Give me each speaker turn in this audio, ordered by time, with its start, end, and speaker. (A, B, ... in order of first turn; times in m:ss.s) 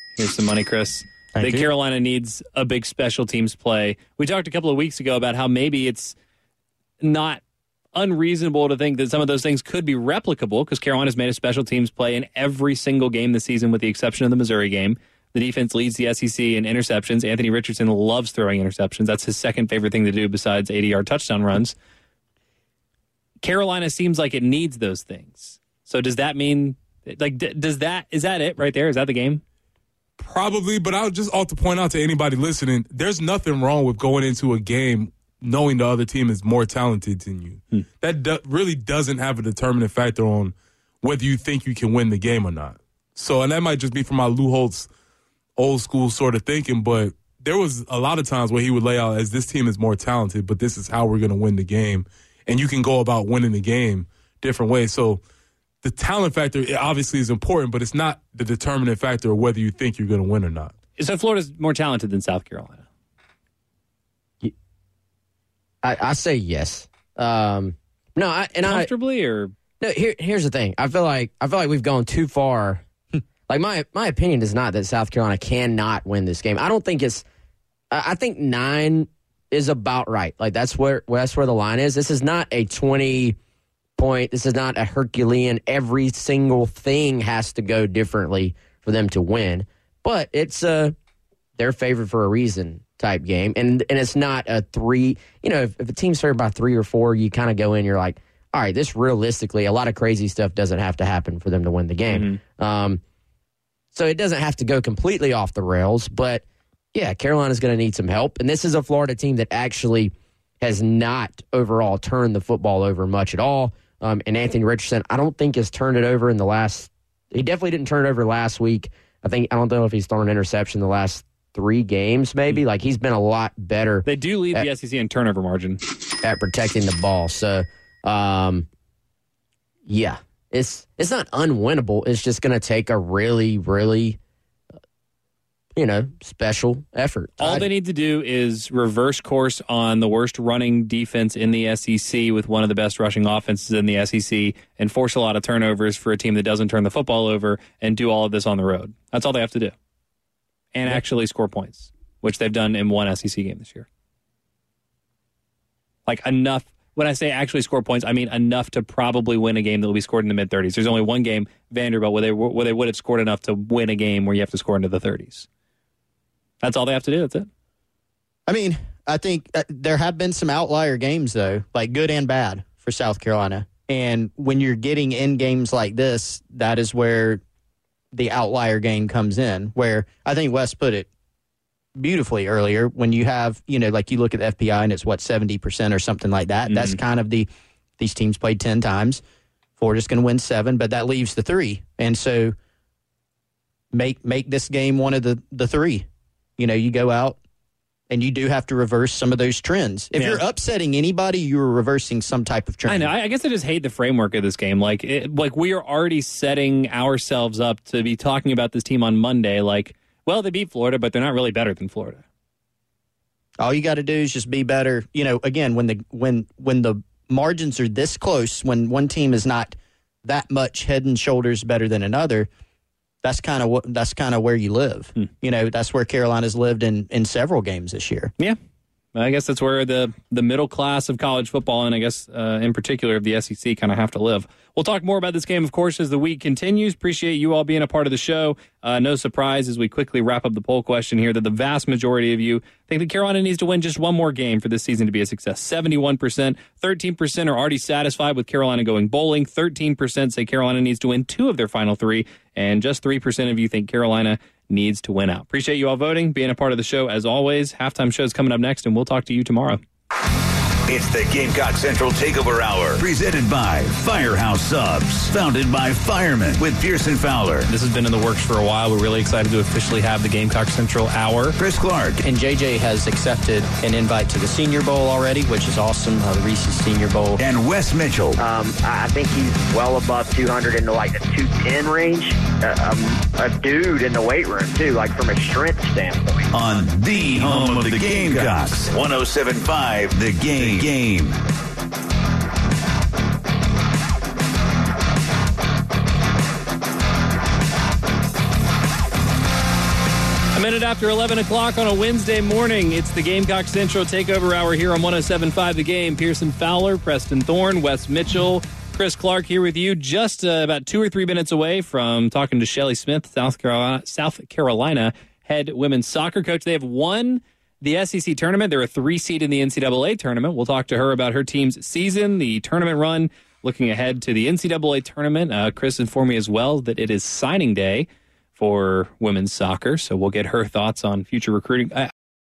0:00.2-0:06.2 A
0:01.3-0:01.7 B
0:07.0-0:07.4 A
0:07.9-0:21.7 A
0:23.4-0:29.4 A
0:30.2-0:44.9 C
0:45.6-0:55.2 C
0:55.8-1:00.7 C
1:01.0-1:02.8 A
1:05.8-1:08.9 D
1:08.6-1:09.5 A
1:09.8-1:12.8 D
1:13.5-1:17.2 D
1:17.9-1:23.4 D
1:24.0-1:30.9 D
1:31.6-1:43.0 D
1:42.1-1:42.4 A
1:43.9-1:46.4 D
1:46.9-2:04.6 D
2:04.0-2:05.8 A
2:06.2-2:08.6 D
2:09.9-2:14.2 D
2:15.8-2:17.7 D
2:17.4-2:29.7 A
2:30.7-2:33.9 A
2:36.1-2:45.5 A
2:46.6-2:47.5 A
2:48.5-2:57.4 B
2:58.1-3:01.1 B
3:02.0-3:09.2 B
3:06.7-3:07.0 A
3:09.8-3:12.5 B
3:13.9-3:16.0 B
3:16.6-3:17.4 B
3:18.1-3:23.1 B
3:20.1-3:20.4 A
3:22.8-3:32.2 A
3:33.6-3:42.5 B
3:43.2-3:48.3 B
3:49.1-4:19.8 A
4:20.9-4:27.6 E
4:27.7-4:31.6 A
4:31.6-4:32.2 E
4:32.2-4:37.4 B
4:37.4-4:38.4 E
4:38.4-4:46.5 F
4:46.5-4:51.4 E
5:00.5-5:32.1 A